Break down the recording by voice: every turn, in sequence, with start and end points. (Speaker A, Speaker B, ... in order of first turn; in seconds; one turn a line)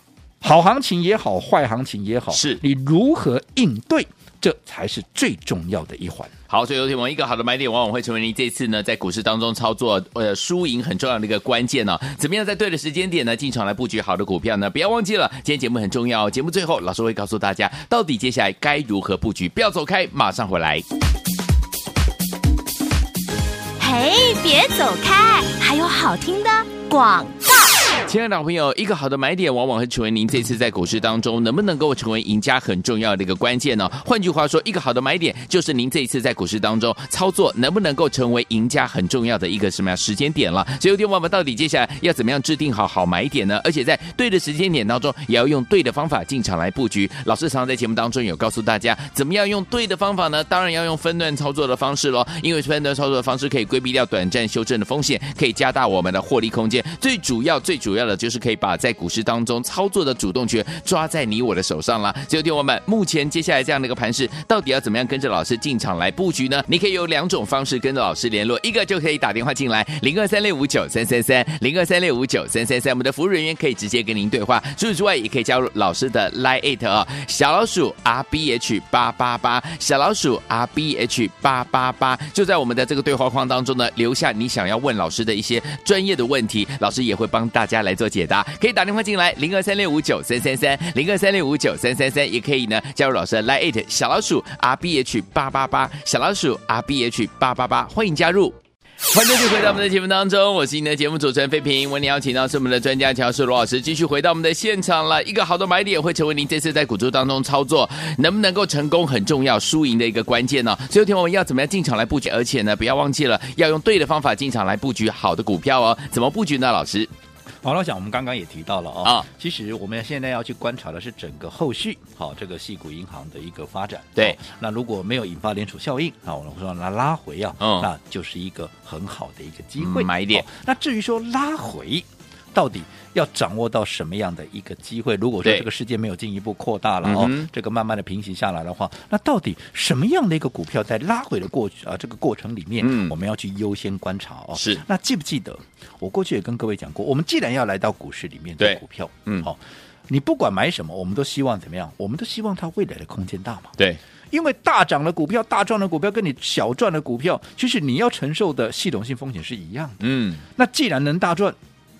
Speaker A: 0.4-6.3
Speaker B: 2.3-2.6
Speaker B: 6.5-20.8
Speaker C: 23.8-27.7
Speaker B: 28.0-98.5
Speaker B: 99.1-117.1
Speaker A: 117.6-153.7
Speaker B: 127.6-127.9
Speaker B: 129.8-130.4
Speaker B: 137.0-137.5
Speaker B: 142.8-143.1
Speaker B: 144.6-144.8
Speaker B: 148.6-149.5
Speaker A: 154.3-161.6
Speaker B: 160.0-160.4